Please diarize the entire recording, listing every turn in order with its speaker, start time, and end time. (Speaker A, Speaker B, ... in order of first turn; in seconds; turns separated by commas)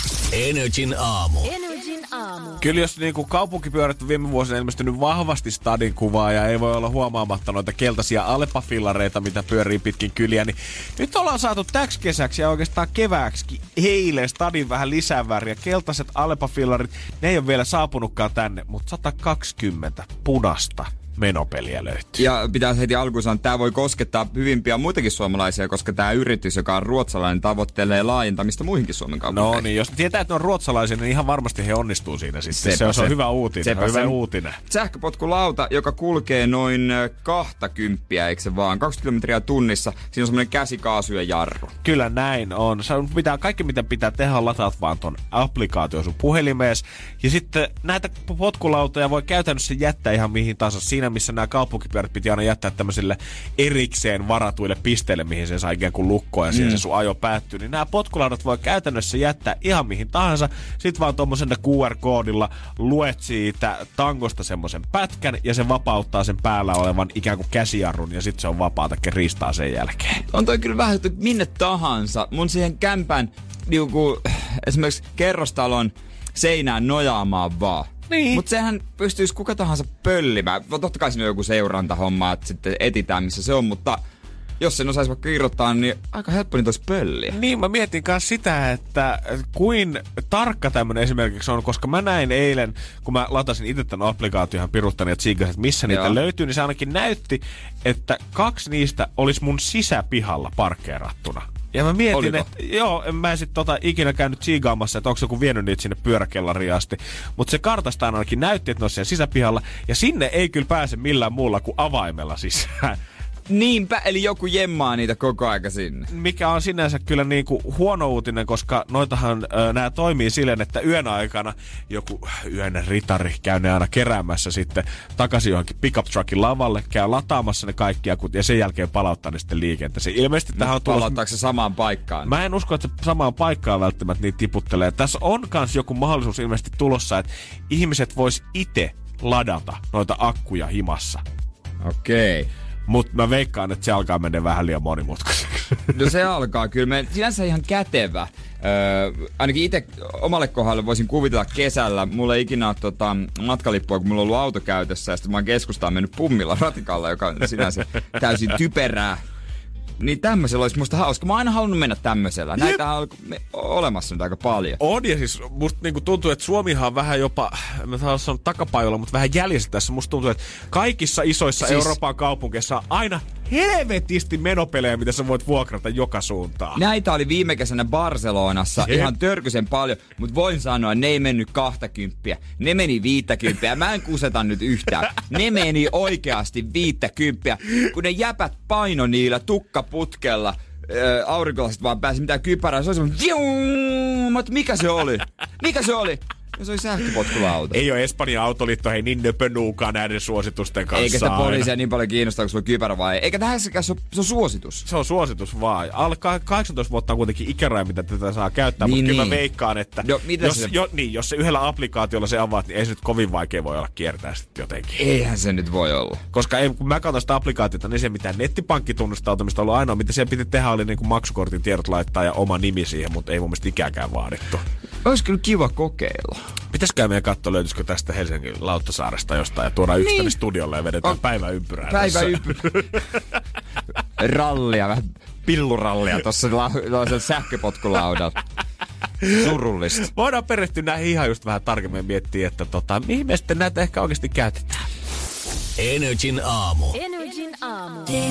Speaker A: 0.3-1.6, Speaker B: 2.6-22.2, Speaker C: 22.2-29.7, Speaker B: 29.3-34.6, Speaker C: 32.5-41.7, Speaker B: 41.8-70.2, Speaker C: 56.5-56.8, Speaker C: 70.3-84.0, Speaker B: 78.1-78.4, Speaker C: 84.6-87.4, Speaker B: 87.3-113.0, Speaker C: 95.9-96.2, Speaker C: 102.1-102.5, Speaker C: 113.5-116.1, Speaker B: 116.1-131.2, Speaker C: 130.6-132.3, Speaker B: 132.2-141.2, Speaker C: 141.8-142.5, Speaker B: 142.9-145.9, Speaker C: 145.9-159.2, Speaker C: 160.0-164.8, Speaker B: 164.8-176.8, Speaker C: 171.6-171.9, Speaker C: 176.8-197.8, Speaker B: 178.8-179.1, Speaker B: 197.7-201.7, Speaker C: 200.9-204.9, Speaker B: 204.9-215.1, Speaker C: 208.8-209.4, Speaker C: 210.0-210.8, Speaker C: 215.0-216.2, Speaker B: 216.3-224.7, Speaker C: 225.0-226.4, Speaker B: 226.7-233.0, Speaker C: 230.0-230.4, Speaker C: 231.9-232.9, Speaker C: 234.2-238.4, Speaker B: 239.2-244.9, Speaker C: 239.3-240.1, Speaker A: 245.8-247.1